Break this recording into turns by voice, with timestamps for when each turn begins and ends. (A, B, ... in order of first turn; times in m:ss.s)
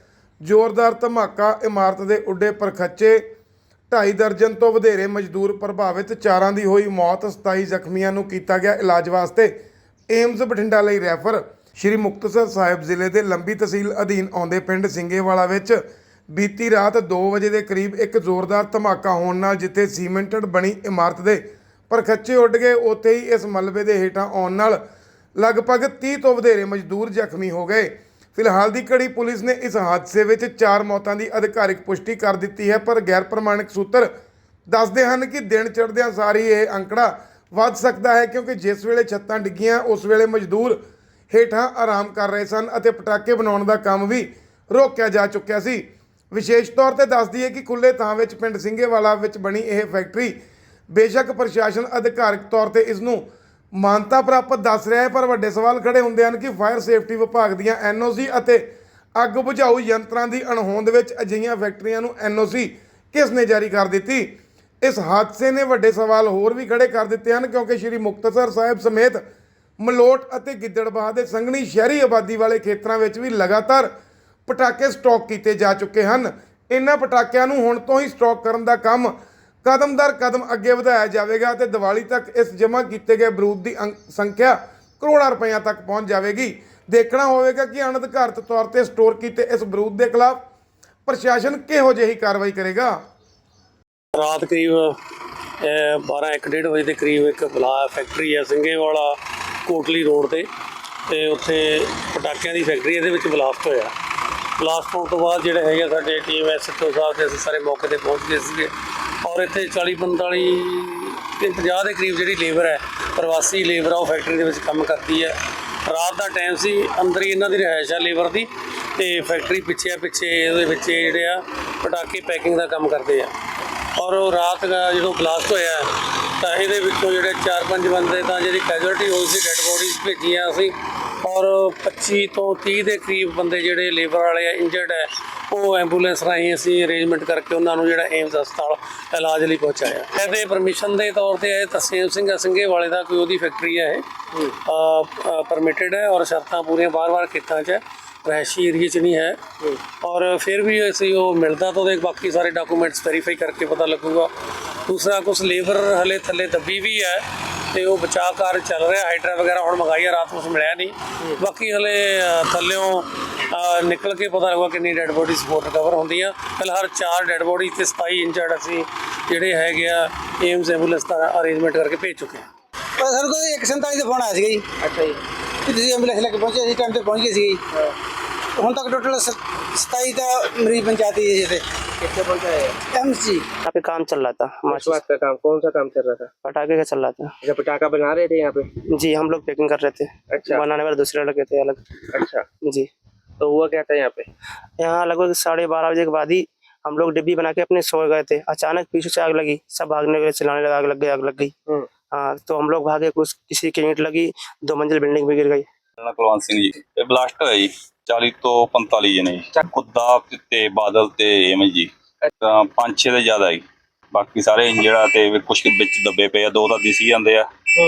0:00.4-0:03.2 A
0:03.9-0:09.5 A
0:10.1-0:24.8 A
0:25.4-0:34.1 A
0:34.7-0:40.8 A
0:41.3-0:50.4 A
0:50.9-1:09.2 A
1:09.8-1:13.9 A
1:14.5-1:30.4 A
1:31.1-1:33.0 A
1:34.2-1:35.0 B
1:35.6-1:40.5 B
1:41.1-1:43.9 B
1:44.6-1:48.7 B
1:49.2-2:03.3 B
2:04.0-2:34.3 B
2:34.9-2:52.5 B
2:53.0-2:54.6 C
2:54.8-2:55.2 D
2:55.6-2:57.6 C
2:58.6-3:01.6 C
3:02.4-3:02.7 D
3:02.9-3:03.5 C
3:03.7-3:05.0 E
3:06.0-3:06.3 D
3:06.4-3:07.3 E
3:08.3-3:08.7 D
3:08.8-3:12.0 E
3:12.6-3:12.9 E
3:13.6-3:14.2 D
3:14.8-3:21.6 E
3:22.1-3:25.7 E
3:26.0-3:37.5 F